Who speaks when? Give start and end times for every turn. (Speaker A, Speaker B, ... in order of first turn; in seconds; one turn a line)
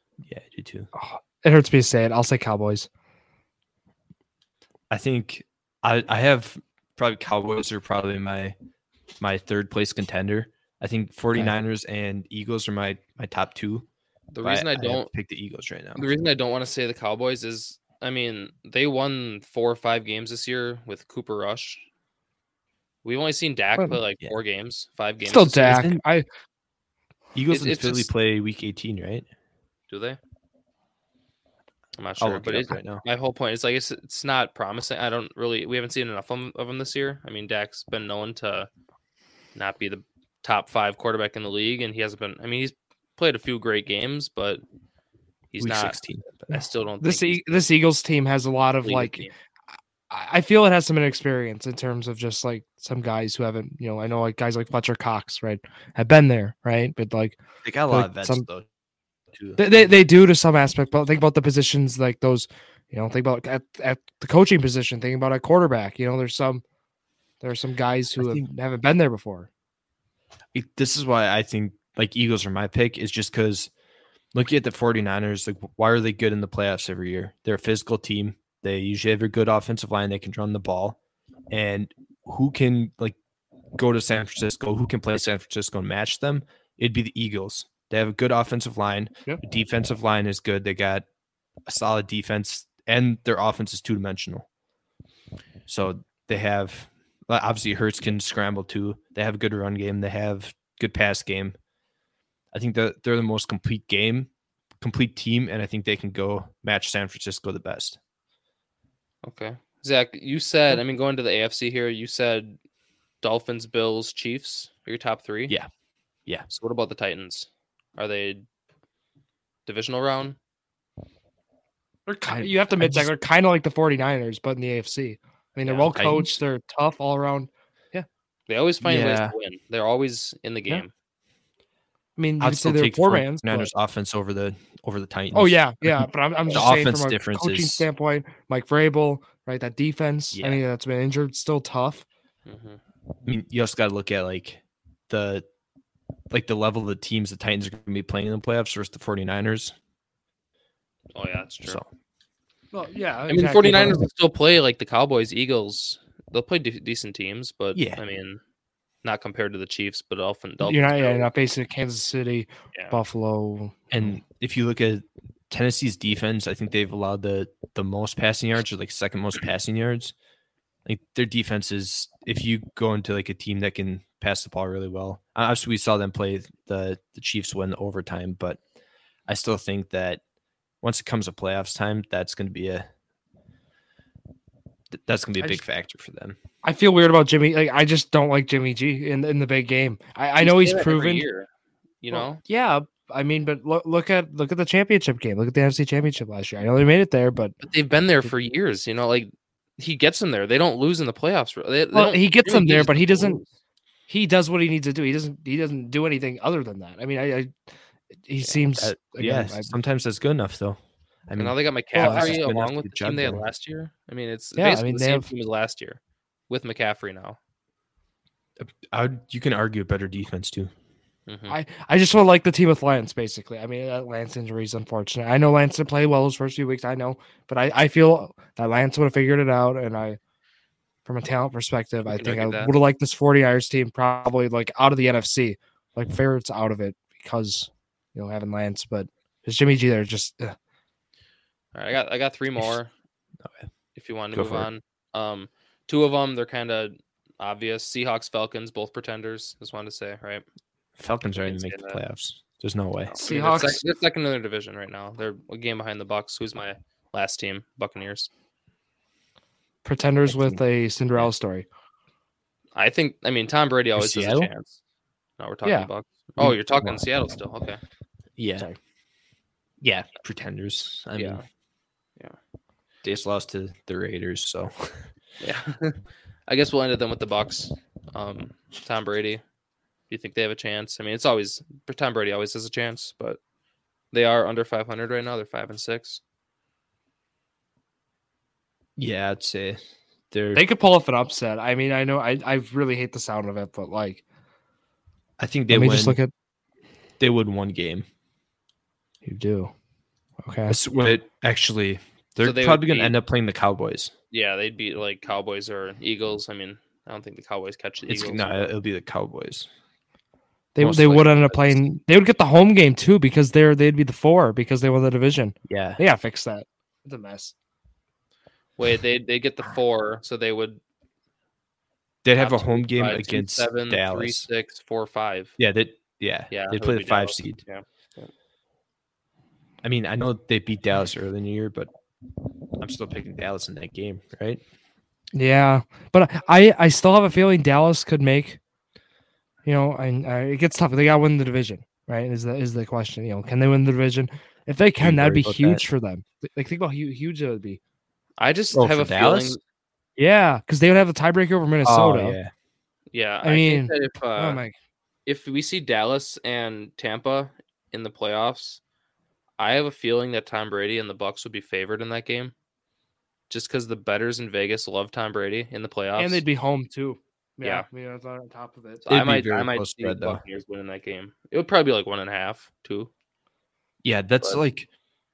Speaker A: 0.2-0.9
Speaker B: 0.9-2.9
Speaker A: 4.9-8.6
Speaker A: 9.2-13.9
Speaker C: 14.3-15.1
Speaker A: 14.4-16.1
Speaker C: 16.0-21.8
Speaker C: 23.0-25.8
Speaker B: 25.2-26.2
Speaker A: 25.6-26.0
Speaker A: 27.3-29.3
Speaker C: 27.5-28.1
Speaker C: 29.9-30.2
Speaker C: 32.0-38.7
Speaker A: 32.2-33.0
Speaker C: 39.5-44.6
Speaker C: 45.5-46.0
Speaker A: 45.6-46.5
Speaker C: 46.5-47.7
Speaker B: 47.0-49.3
Speaker C: 48.8-49.3
Speaker B: 50.1-57.4
Speaker A: 57.6-58.7
Speaker B: 57.9-58.5
Speaker A: 59.3-59.9
Speaker B: 59.6-66.6
Speaker B: 67.4-69.5
Speaker A: 68.2-68.5
Speaker A: 70.5-73.7
Speaker A: 74.3-81.0
Speaker A: 81.5-83.2
Speaker A: 83.8-91.1
Speaker A: 91.7-94.5
Speaker A: 95.7-101.5
Speaker A: 102.5-104.3
Speaker A: 104.8-108.0
Speaker C: 109.2-112.6
Speaker C: 113.2-115.5
Speaker C: 116.5-118.4
Speaker C: 119.7-120.4
Speaker B: 122.1-128.1
Speaker A: 122.3-123.1
Speaker C: 125.6-126.0
Speaker A: 125.9-126.3
Speaker C: 128.5-130.9
Speaker A: 128.8-129.3
Speaker B: 132.2-133.7
Speaker A: 132.4-137.9
Speaker B: 135.3-142.1
Speaker A: 140.3-140.6
Speaker C: 142.5-142.8
Speaker A: 143.3-145.4
Speaker A: 146.3-149.8
Speaker C: 151.2-151.8
Speaker B: 152.7-154.0
Speaker C: 153.3-158.4
Speaker A: 157.8-158.0
Speaker C: 159.0-161.3
Speaker B: 160.6-163.8
Speaker A: 163.9-170.1
Speaker A: 170.9-178.6
Speaker A: 179.3-180.2
Speaker A: 180.8-182.9
Speaker A: 184.9-186.4
Speaker B: 186.6-191.3
Speaker C: 190.4-191.5
Speaker C: 192.0-192.4
Speaker B: 192.1-197.6
Speaker C: 197.6-203.5
Speaker B: 201.9-203.4
Speaker B: 204.1-207.5
Speaker B: 208.2-209.8
Speaker A: 208.8-213.4
Speaker C: 211.4-217.4
Speaker B: 211.9-212.4
Speaker B: 214.6-215.3
Speaker A: 218.6-220.7
Speaker C: 221.3-221.6
Speaker B: 221.5-230.2
Speaker B: 231.1-240.6
Speaker C: 232.1-232.7
Speaker C: 241.7-242.9
Speaker C: 244.0-250.4
Speaker A: 244.3-244.7
Speaker A: 251.0-253.2
Speaker C: 251.4-252.0
Speaker C: 253.1-258.3
Speaker B: 253.2-253.8
Speaker B: 259.9-261.7
Speaker A: 260.3-260.6
Speaker C: 262.8-264.8
Speaker A: 264.0-264.5
Speaker C: 265.4-267.8
Speaker B: 265.6-265.9
Speaker A: 266.4-267.1
Speaker A: 268.4-268.7
Speaker A: 269.8-271.4
Speaker C: 271.2-271.4
Speaker A: 273.0-275.1
Speaker C: 275.4-279.4
Speaker C: 280.1-283.4
Speaker C: 284.1-286.2
Speaker A: 289.0-289.8
Speaker A: 290.3-290.6
Speaker B: 290.6-294.2
Speaker A: 295.4-296.2
Speaker B: 295.7-296.3
Speaker A: 297.2-298.1
Speaker B: 299.2-299.7
Speaker B: 300.4-300.8
Speaker A: 300.7-304.1
Speaker C: 302.4-303.1
Speaker C: 304.3-308.7
Speaker A: 308.1-309.7
Speaker B: 310.8-317.5
Speaker A: 310.8-311.8
Speaker A: 315.7-316.0
Speaker C: 318.8-320.8
Speaker A: 322.2-324.5
Speaker C: 322.4-325.5
Speaker A: 325.6-327.6
Speaker C: 326.5-328.3
Speaker A: 329.8-331.9
Speaker A: 332.8-334.6
Speaker B: 335.4-338.6
Speaker B: 339.6-347.8
Speaker A: 345.0-345.8
Speaker C: 348.4-349.6
Speaker A: 348.7-349.6
Speaker B: 350.2-352.4
Speaker A: 351.8-352.5
Speaker C: 353.1-354.6
Speaker B: 353.4-354.7
Speaker C: 355.3-358.8
Speaker C: 359.6-362.5
Speaker C: 363.5-366.4
Speaker B: 366.2-369.1
Speaker C: 369.1-373.1
Speaker A: 369.1-370.4
Speaker A: 374.0-374.9